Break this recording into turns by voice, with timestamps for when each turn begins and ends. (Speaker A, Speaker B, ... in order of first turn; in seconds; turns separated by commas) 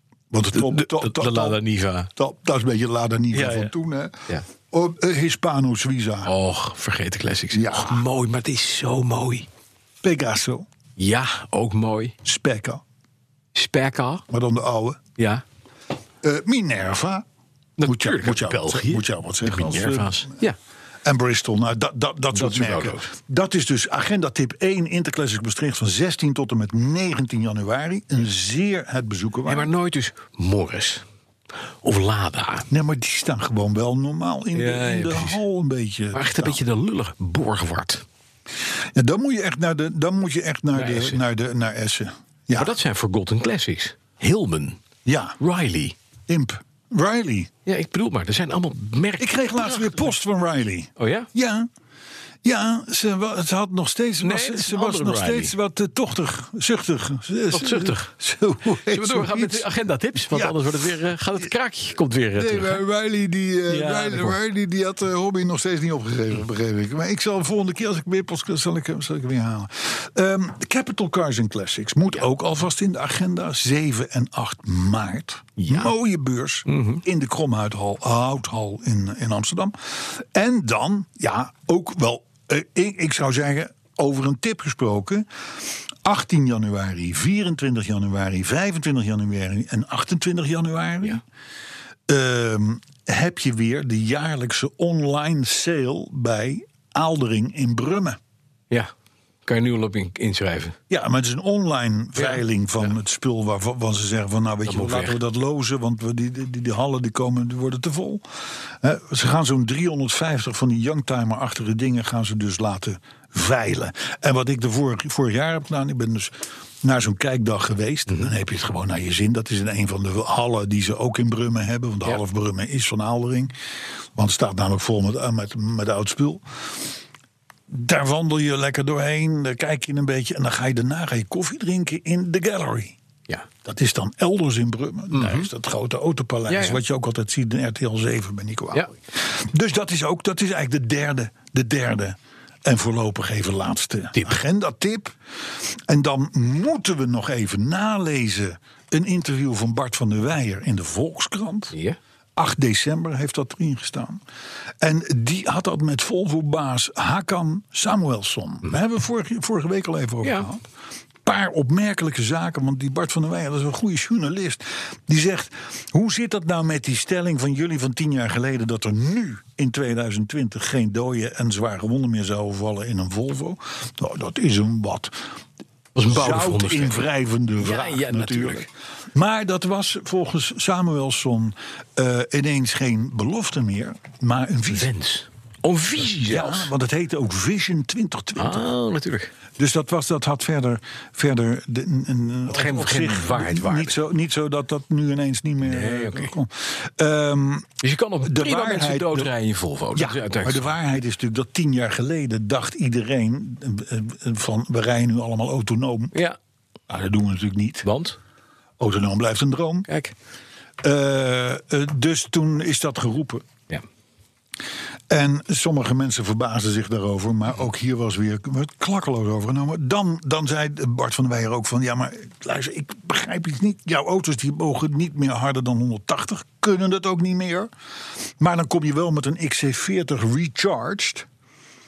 Speaker A: 0.3-1.6, Speaker B: 0.5-2.1, Speaker A: 2.1-4.2, Speaker B: 3.3-3.7, Speaker A: 4.7-6.3, Speaker B: 6.2-9.5, Speaker A: 7.5-8.1, Speaker A: 10.0-10.7, Speaker B: 11.0-12.2, Speaker A: 12.2-12.8, Speaker B: 13.6-14.2, Speaker A: 14.3-15.0, Speaker B: 15.2-15.4, Speaker A: 16.2-17.2, Speaker B: 17.8-20.6, Speaker A: 17.8-20.4, Speaker A: 21.0-29.7, Speaker B: 22.3-23.1, Speaker B: 29.4-31.0, Speaker B: 31.8-32.7, Speaker A: 32.7-36.6, Speaker B: 34.5-35.4, Speaker B: 36.1-38.0, Speaker A: 39.0-42.8, Speaker B: 40.8-41.2, Speaker B: 42.5-44.8, Speaker A: 45.0-45.4, Speaker B: 45.4-46.0, Speaker A: 46.3-47.5, Speaker B: 47.7-50.0, Speaker A: 49.2-51.7, Speaker B: 51.0-51.3, Speaker A: 52.4-59.7, Speaker B: 54.2-55.5, Speaker B: 57.5-58.1, Speaker B: 58.7-62.8, Speaker A: 60.3-60.6, Speaker A: 62.4-91.2, Speaker B: 63.7-64.4, Speaker B: 75.6-75.9, Speaker B: 76.7-77.0, Speaker A: 92.1-98.2, Speaker B: 99.5-100.8, Speaker A: 100.9-108.2, Speaker B: 102.2-102.9, Speaker B: 104.7-105.2, Speaker A: 108.8-123.5, Speaker A: 124.2-126.4, Speaker A: 127.7-133.0, Speaker A: 133.6-151.8, Speaker B: 135.1-135.5, Speaker B: 136.5-136.8, Speaker A: 152.4-154.2, Speaker A: 154.8-160.6, Speaker A: 161.2-175.2, Speaker B: 175.9-177.1, Speaker A: 176.1-184.9, Speaker B: 177.6-178.7, Speaker B: 184.7-186.7, Speaker A: 186.2-188.7, Speaker B: 188.4-189.3, Speaker A: 189.6-199.3, Speaker B: 192.5-194.0, Speaker B: 195.6-196.3, Speaker B: 197.8-200.7, Speaker A: 199.9-206.2, Speaker A: 206.9-207.9, Speaker B: 207.8-208.2, Speaker A: 208.8-209.9, Speaker B: 209.9-210.2, Speaker A: 210.8-213.5, Speaker A: 215.1-227.7, Speaker A: 228.4-231.3